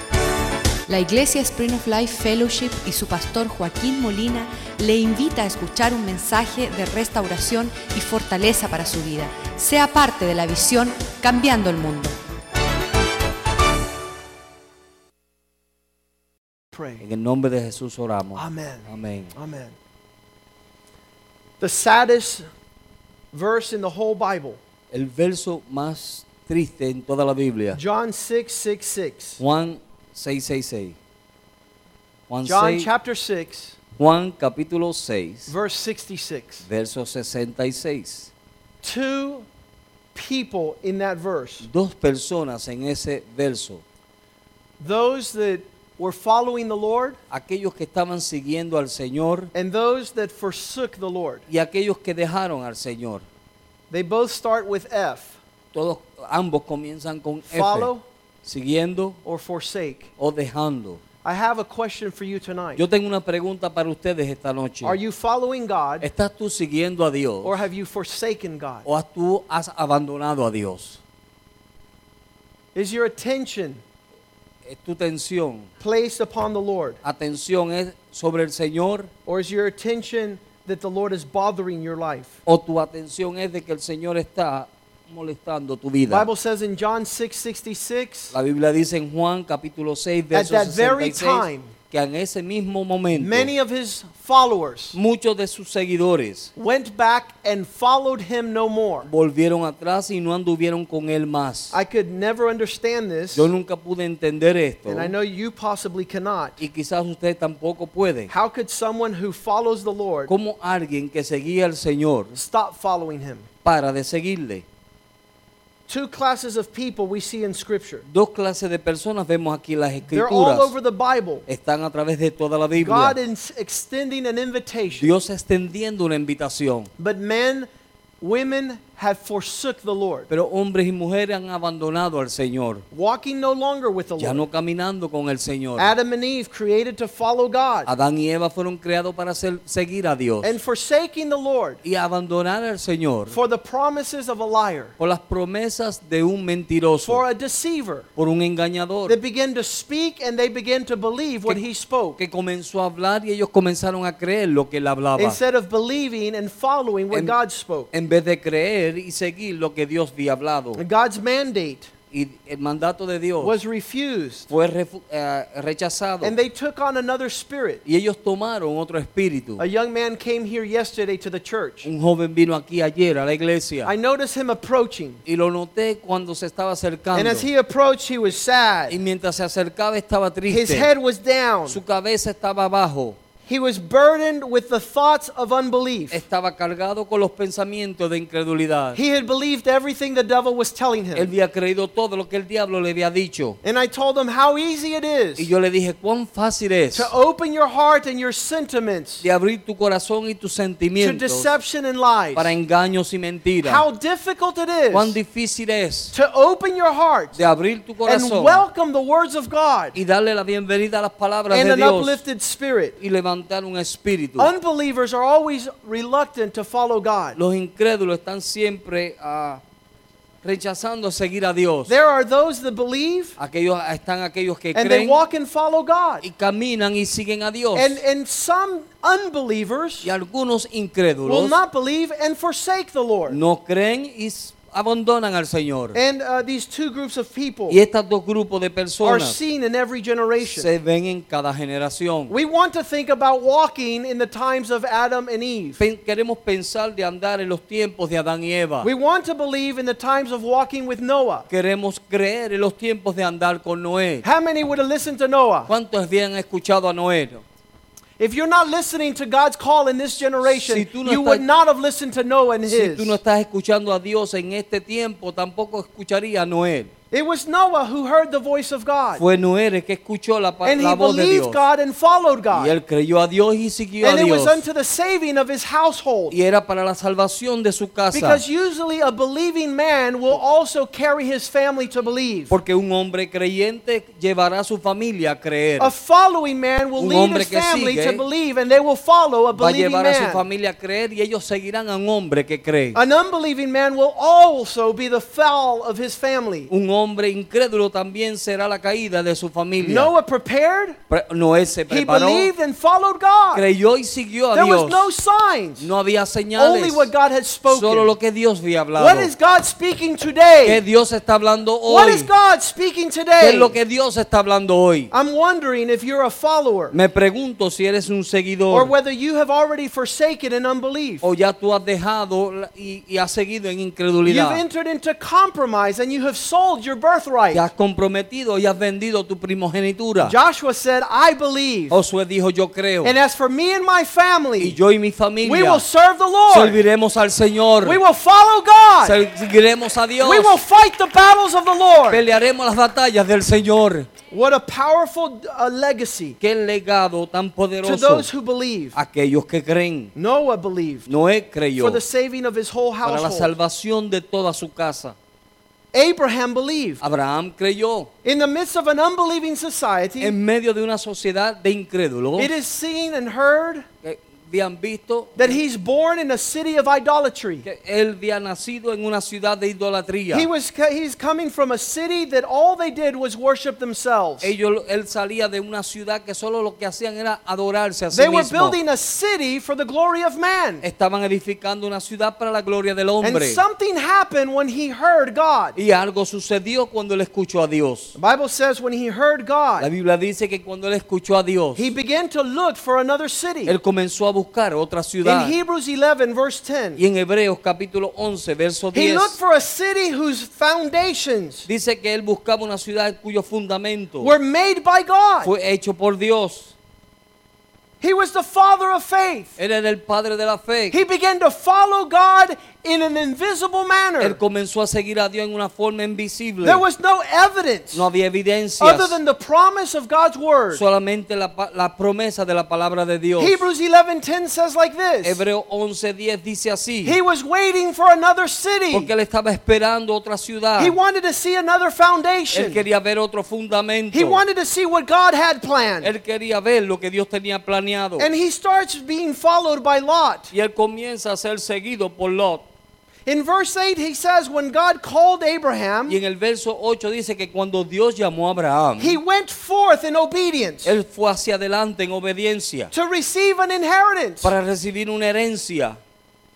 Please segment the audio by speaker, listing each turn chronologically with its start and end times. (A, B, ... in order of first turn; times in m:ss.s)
0:00.9-0:12.1 A
0:16.7-0:17.0 B
0:17.0-0:19.3 C
0:18.4-0:19.8 B
0:21.6-0:22.5 B
0:23.3-0:24.6 B
0:24.9-0:27.8 C
0:27.7-0:29.4 B
0:29.4-0:31.0 C
0:32.3-0:32.9 C
0:32.5-0:33.8 B
0:34.0-0:35.5 C
0:35.5-0:36.6 B
0:36.6-0:38.3 C
0:38.8-0:39.5 B
0:40.2-0:41.7 B
0:41.6-0:43.8 C
0:44.8-0:47.2 B
0:47.3-0:49.5 C
0:49.5-0:51.4 B
0:51.5-0:53.2 C
0:53.9-0:55.4 B
0:55.7-0:57.9 C
0:57.5-0:58.0 B
0:58.4-0:59.2 C
0:59.2-1:00.1 B
1:00.2-1:01.0 C
1:01.2-1:02.8 B
1:02.8-1:05.0 C
1:04.8-1:06.1 B
1:06.0-1:07.6 C
1:07.4-1:08.9 B
1:08.8-1:11.0 C
1:12.8-1:13.8 B
1:14.7-1:15.7 C
1:15.8-1:17.0 B
1:17.0-1:19.1 C
1:19.3-1:22.4 B
1:22.5-1:26.3 C
1:26.1-1:28.3 B
1:28.3-1:33.5 C
1:30.3-1:31.7 B
1:33.1-1:35.0 B
1:34.9-1:36.5 C
1:36.6-1:39.1 B
1:39.0-1:41.7 C
1:41.7-1:43.5 B
1:43.3-1:45.1 C
1:44.9-1:46.6 B
1:46.6-1:48.3 C
1:48.3-1:50.3 B
1:50.3-1:52.4 C
1:52.4-1:53.5 B
1:53.6-1:54.6 C
1:55.9-1:58.0 B
1:58.1-2:00.7 C
2:00.1-2:01.5 B
2:01.5-2:03.2 C
2:02.7-2:05.1 B
2:05.0-2:06.9 C
2:07.0-2:07.7 B
2:08.2-2:10.3 B
2:10.3-2:12.8 C
2:12.9-2:14.5 B
2:14.2-2:15.9 C
2:15.8-2:17.9 B
2:17.9-2:20.6 C
2:20.4-2:21.8 B
2:21.8-2:23.4 C
2:23.3-2:24.9 B
2:25.0-2:27.2 C
2:27.0-2:28.1 B
2:28.2-2:29.2 C
2:29.1-2:32.2 B
2:32.2-2:35.4 C
2:35.2-2:37.9 B
2:37.1-2:37.4 C
2:37.9-2:40.8 C
2:40.8-2:41.9 B
2:42.1-2:43.6 C
2:43.4-2:44.5 B
2:44.5-2:46.4 C
2:46.2-2:47.8 B
2:47.8-2:49.6 C
2:49.6-2:51.9 B
2:51.8-2:53.9 C
2:53.8-2:55.2 B
2:55.2-2:57.5 C
2:57.1-2:59.0 B
2:58.9-3:00.9 C
3:00.5-3:01.8 B
3:01.7-3:03.2 C
3:03.5-3:06.2 B
3:06.1-3:09.0 C
3:09.0-3:11.3 B
3:11.2-3:13.6 C
3:13.6-3:15.5 B
3:15.4-3:17.1 C
3:16.9-3:19.2 B
3:19.2-3:21.5 C
3:21.0-3:22.5 B
3:22.4-3:23.8 C
3:23.6-3:25.2 B
3:24.9-3:26.1 C
3:26.1-3:27.4 B
3:27.4-3:28.6 C
3:28.0-3:30.0 B
3:30.0-3:32.2 C
3:31.5-3:33.0 B
3:33.0-3:34.5 C
3:34.4-3:37.4 B
3:37.4-3:39.6 C
3:40.4-3:42.0 C
3:41.9-3:43.4 B
3:43.4-3:45.2 C
3:44.7-3:46.2 B
3:46.2-3:48.0 C
3:47.7-3:50.1 B
3:50.0-3:51.6 C
3:51.2-3:53.4 B
3:53.3-3:56.0 C
3:55.9-3:57.8 B
3:57.7-3:59.4 C
3:59.0-4:00.7 B
4:00.4-4:02.3 C
4:02.3-4:05.8 B
4:05.8-4:08.9 C
4:08.8-4:11.5 B
4:11.5-4:14.2 C
4:14.2-4:15.7 B
4:15.7-4:17.4 C
4:18.2-4:23.2 B
4:20.4-4:21.4 C
4:22.7-4:26.9 C
4:27.1-4:29.2 B
4:29.2-4:31.6 C
4:30.6-4:32.8 B
4:32.5-4:34.6 C
4:34.0-4:36.3 B
4:36.3-4:38.4 C
4:38.1-4:42.5 B
4:42.5-4:45.9 C
4:45.8-4:50.4 B
4:47.0-4:48.2 C
4:49.5-4:53.0 C
4:52.9-4:56.7 B
4:56.7-5:00.1 C
4:59.8-5:01.0 B
5:01.1-5:02.5 C
5:01.9-5:03.7 B
5:03.5-5:05.1 C
5:04.5-5:05.9 B
5:05.8-5:07.1 C
5:06.6-5:08.2 B
5:07.7-5:09.3 C
5:09.0-5:10.8 B
5:10.6-5:12.3 C
5:11.9-5:13.8 B
5:13.4-5:15.1 C
5:15.1-5:17.0 B
5:16.9-5:18.9 C
5:18.7-5:21.2 B
5:21.2-5:24.6 C
5:24.2-5:27.6 B
5:27.5-5:30.4 C
5:30.2-5:32.0 B
5:31.9-5:33.1 C
5:33.0-5:34.8 B
5:34.6-5:35.8 C
5:35.4-5:36.8 B
5:36.5-5:38.0 C
5:37.8-5:39.2 B
5:39.0-5:40.6 C
5:40.2-5:42.3 B
5:42.1-5:44.1 C
5:44.3-5:46.4 B
5:46.4-5:48.3 C
5:47.8-5:49.0 B
5:48.9-5:50.1 C
5:50.2-5:51.1 B
5:51.1-5:52.0 C
5:51.8-5:53.5 B
5:53.0-5:55.2 C
5:55.9-5:57.0 B
5:57.0-5:58.1 C
5:58.2-6:00.4 B
6:00.2-6:02.5 C
6:02.4-6:03.9 B
6:04.0-6:05.6 C
6:05.4-6:07.7 B
6:07.6-6:10.5 C
6:10.3-6:14.5 B
6:14.4-6:18.8 C
6:18.1-6:20.8 B
6:20.8-6:23.6 C
6:23.2-6:25.8 B
6:25.8-6:28.2 C
6:28.2-6:29.9 B
6:29.8-6:31.9 C
6:31.8-6:33.8 B
6:33.6-6:35.6 C
6:35.2-6:37.0 B
6:37.0-6:39.4 C
6:38.9-6:41.7 B
6:41.7-6:44.3 C
6:44.2-6:45.5 B
6:45.4-6:46.7 C
6:48.0-6:49.6 B
6:49.6-6:51.0 C
6:50.9-6:54.4 B
6:54.2-6:56.8 C
6:56.6-6:58.1 B
6:57.9-6:59.2 C
6:58.8-7:00.8 B
7:00.7-7:03.6 C
7:03.4-7:05.4 B
7:05.2-7:07.2 C
7:07.0-7:09.1 B
7:08.9-7:11.0 C
7:10.8-7:12.8 B
7:12.5-7:14.4 C
7:14.1-7:16.1 B
7:16.0-7:18.3 C
7:18.2-7:20.5 B
7:20.5-7:22.6 C
7:23.3-7:26.2 B
7:26.1-7:29.2 C
7:29.0-7:31.0 B
7:30.8-7:32.9 C
7:32.9-7:34.5 B
7:34.4-7:36.0 C